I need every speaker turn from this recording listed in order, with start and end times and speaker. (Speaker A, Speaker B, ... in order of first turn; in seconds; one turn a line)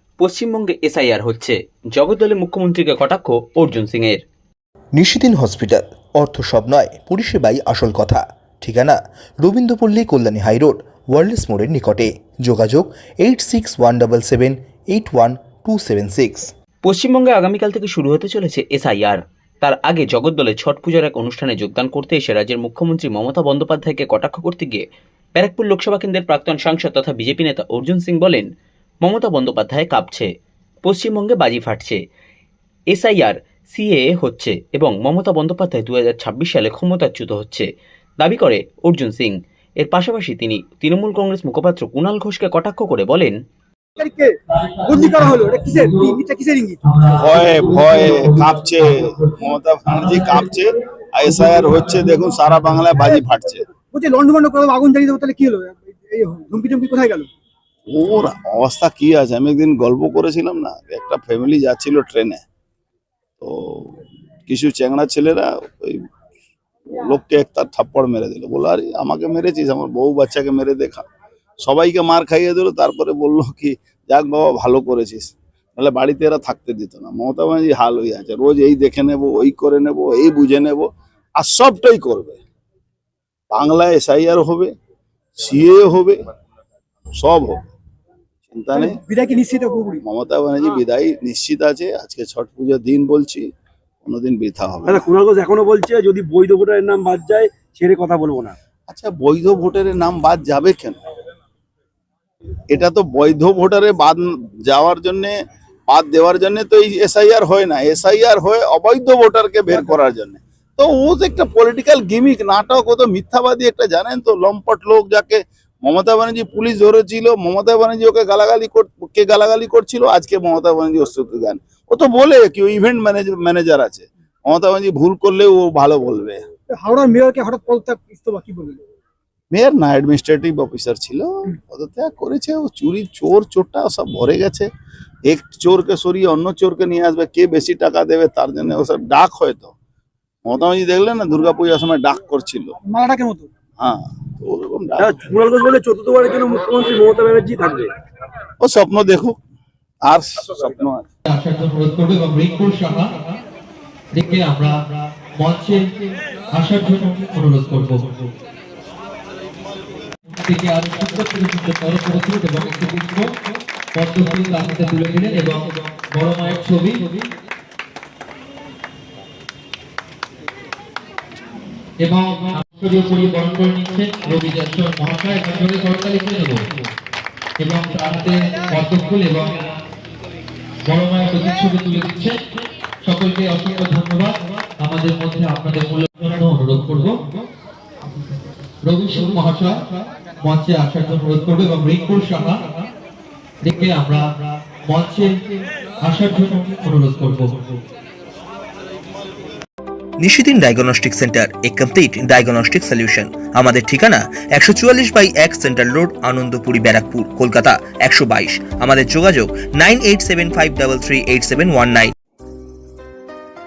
Speaker A: 0.2-4.2
Speaker B: 5.0-16.5
Speaker A: 16.8-24.8
Speaker A: 25.4-28.4
Speaker A: 29.0-30.3
Speaker A: 30.9-32.0
Speaker A: 32.9-37.6
Speaker A: 38.2-43.3
Speaker C: 44.0-46.8
Speaker D: 47.0-48.5
Speaker E: 47.0-53.6
Speaker C: 53.9-57.3
Speaker E: 57.9-62.4
Speaker E: 63.4-63.9
Speaker E: 64.5-66.0
Speaker E: 66.9-71.0
Speaker E: 71.6-82.4
Speaker E: 83.5-84.7
Speaker E: 85.4-86.2
Speaker E: 87.2-87.6
Speaker E: 88.5-89.0
Speaker C: 88.7-90.0
Speaker E: 90.0-93.5
Speaker E: 94.0-95.1
Speaker D: 94.8-98.5
Speaker E: 98.9-101.0
Speaker E: 102.7-105.4
Speaker E: 105.9-126.4
Speaker C: 126.7-128.8
Speaker E: 129.5-134.7
Speaker E: 135.3-139.7
Speaker E: 140.4-142.7
Speaker C: 142.9-143.5
Speaker E: 143.8-145.3
Speaker D: 145.0-147.9
Speaker E: 148.6-149.4
Speaker E: 150.0-151.0
Speaker F: 151.3-153.2
Speaker F: 154.1-155.9
Speaker F: 156.5-158.2
Speaker F: 160.3-163.3
Speaker F: 163.9-167.2
Speaker F: 172.0-176.7
Speaker F: 177.6-179.7
Speaker F: 180.8-182.4
Speaker F: 183.0-187.2
Speaker F: 188.8-189.8
Speaker F: 190.4-192.7
Speaker F: 193.6-195.4
Speaker F: 196.0-197.8
Speaker B: 200.2-212.1